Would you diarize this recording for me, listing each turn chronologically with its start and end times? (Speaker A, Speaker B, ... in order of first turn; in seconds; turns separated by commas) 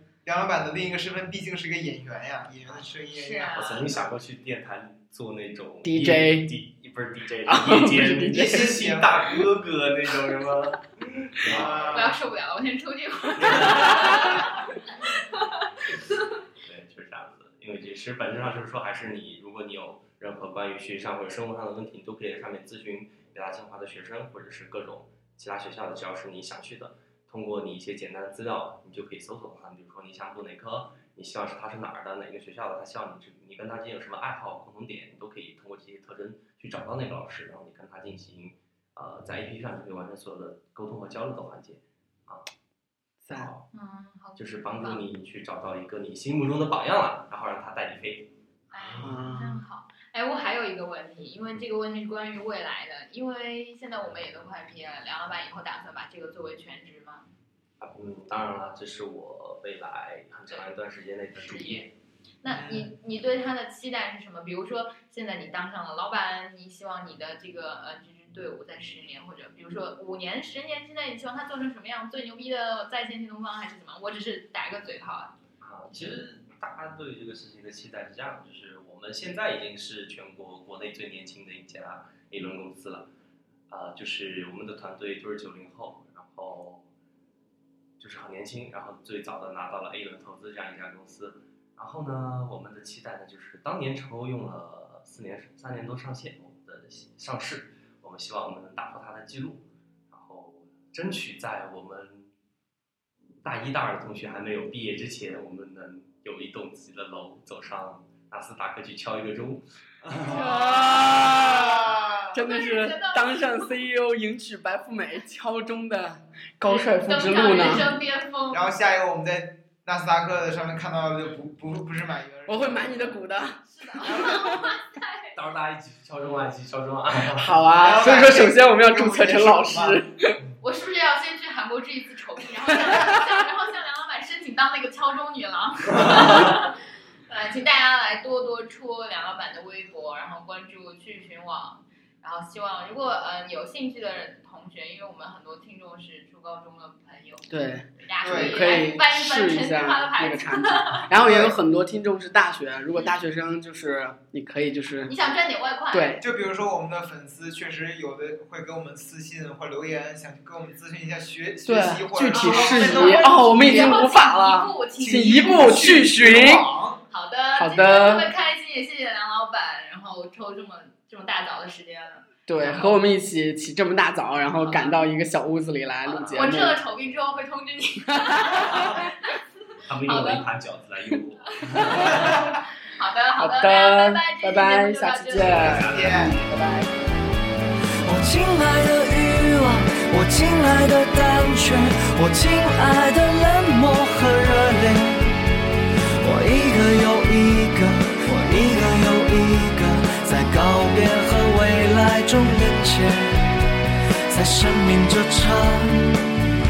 Speaker A: 0.2-3.6, Speaker B: 2.6-2.9, Speaker C: 3.1-3.9, Speaker B: 3.5-12.2, Speaker D: 5.8-6.6, Speaker D: 7.5-8.8, Speaker A: 8.3-9.5, Speaker A: 11.4-12.2, Speaker C: 11.9-16.3, Speaker B: 13.4-14.4, Speaker A: 13.6-14.2, Speaker B: 16.6-42.5, Speaker D: 43.2-43.5, Speaker B: 43.3-43.7, Speaker C: 43.7-45.0, Speaker B: 44.4-49.1, Speaker C: 48.7-57.2, Speaker D: 49.0-49.6, Speaker B: 57.8-61.8, Speaker C: 61.4-75.3, Speaker A: 62.5-62.9, Speaker B: 75.6-83.1, Speaker B: 83.7-86.9, Speaker B: 88.0-102.3, Speaker B: 103.4-110.5, Speaker A: 110.2-112.3, Speaker D: 110.2-117.9, Speaker C: 112.4-113.7, Speaker C: 116.7-118.7, Speaker A: 118.5-123.2, Speaker D: 122.5-124.7, Speaker C: 123.7-125.3, Speaker A: 124.0-124.6, Speaker B: 125.3-127.5, Speaker D: 127.4-130.3, Speaker A: 127.8-130.0, Speaker C: 130.6-151.1, Speaker D: 147.5-155.2, Speaker A: 148.2-148.9, Speaker A: 151.1-151.6, Speaker C: 155.1-156.2, Speaker D: 155.9-156.2, Speaker A: 156.2-164.0, Speaker D: 161.7-166.7, Speaker C: 162.3-165.9, Speaker A: 165.1-167.0, Speaker C: 167.1-173.1, Speaker D: 167.6-168.3, Speaker D: 172.5-176.8, Speaker C: 174.6-175.0, Speaker C: 176.1-179.4, Speaker B: 176.2-176.5, Speaker B: 178.5-179.1, Speaker B: 179.9-182.4, Speaker C: 180.0-180.5, Speaker C: 181.7-185.6, Speaker D: 181.8-182.4, Speaker D: 183.4-187.2, Speaker A: 185.5-186.4, Speaker B: 185.6-186.3, Speaker E: 188.1-195.4, Speaker E: 196.2-203.5, Speaker E: 204.3-206.4